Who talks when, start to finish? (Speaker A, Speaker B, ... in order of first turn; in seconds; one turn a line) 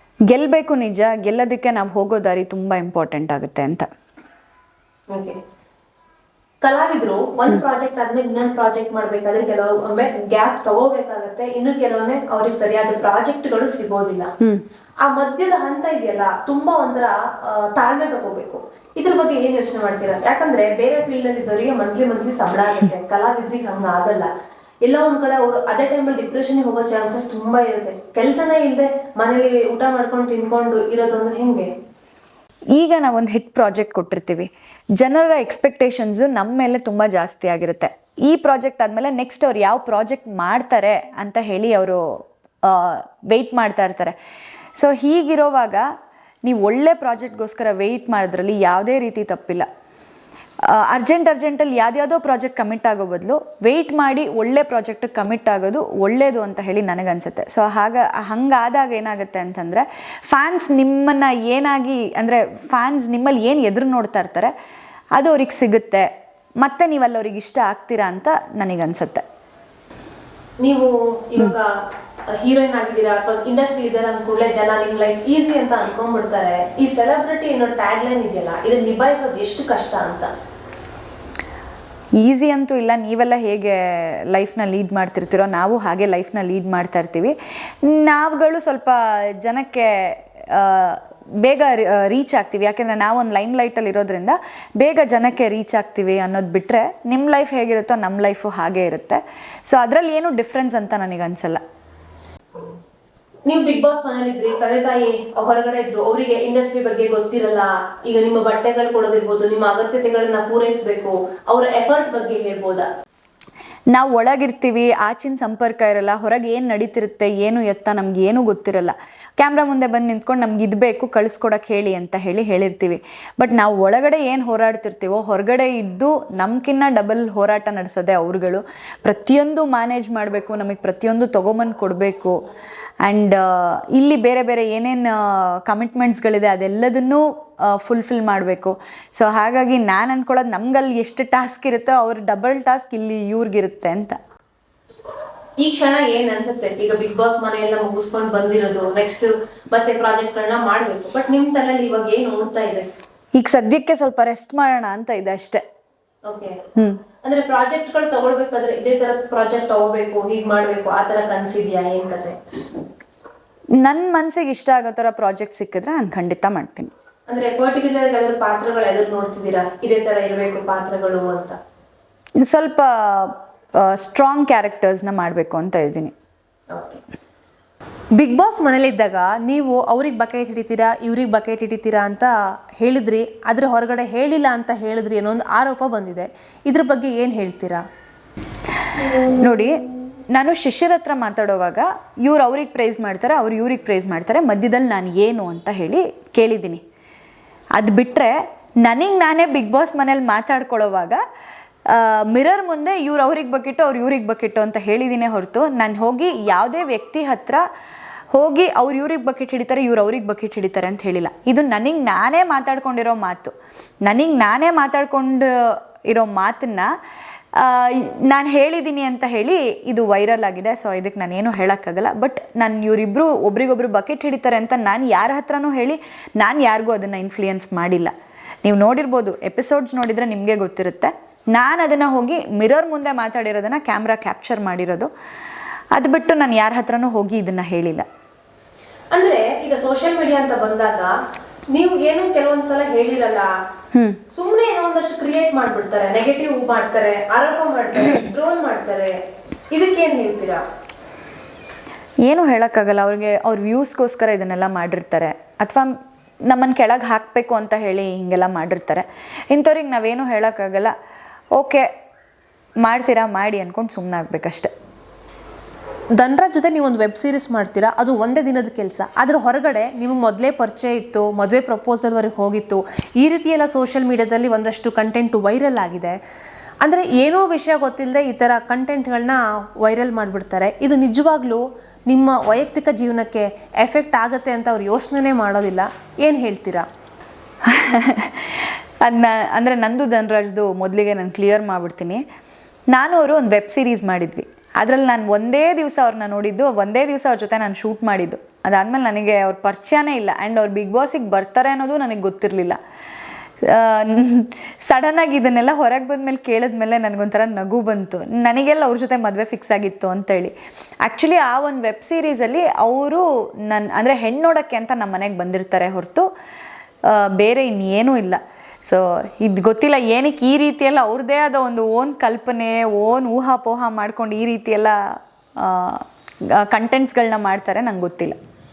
Speaker A: 0.3-3.9
Speaker B: 5.1-5.4
Speaker B: 6.6-14.3
Speaker B: 15.0-24.3
Speaker B: 24.9-31.7
Speaker A: 32.8-44.2
Speaker A: 44.8-45.9
Speaker A: 46.4-49.7
Speaker A: 50.6-64.5
Speaker A: 65.2-66.1
Speaker A: 66.6-69.2
Speaker B: 70.6-71.7
Speaker B: 72.3-80.3
Speaker A: 82.2-101.6
Speaker B: 103.5-112.9
Speaker A: 113.9-132.4
Speaker A: 133.0-144.2
Speaker B: 145.6-152.9
Speaker A: 153.4-155.6
Speaker B: 156.3-156.6
Speaker A: 156.8-157.0
Speaker B: 157.2-162.4
Speaker A: 163.8-166.9
Speaker B: 167.3-171.6
Speaker A: 172.4-176.1
Speaker B: 176.7-177.0
Speaker B: 178.2-187.8
Speaker A: 189.3-189.8
Speaker A: 190.3-196.8
Speaker A: 197.8-201.2
Speaker A: 201.9-207.6
Speaker A: 208.3-213.5
Speaker A: 214.1-216.9
Speaker A: 217.6-235.1
Speaker A: 235.9-238.1
Speaker B: 239.1-241.1
Speaker B: 241.7-243.5
Speaker A: 243.9-244.2
Speaker B: 244.3-249.2
Speaker B: 249.7-250.6
Speaker A: 252.3-255.9
Speaker A: 256.5-260.9
Speaker A: 261.6-261.9
Speaker A: 262.8-264.7
Speaker B: 266.2-276.2
Speaker B: 276.8-286.9
Speaker A: 287.6-292.2
Speaker A: 292.9-302.8
Speaker A: 303.6-316.3
Speaker A: 317.1-326.1
Speaker A: 326.6-328.4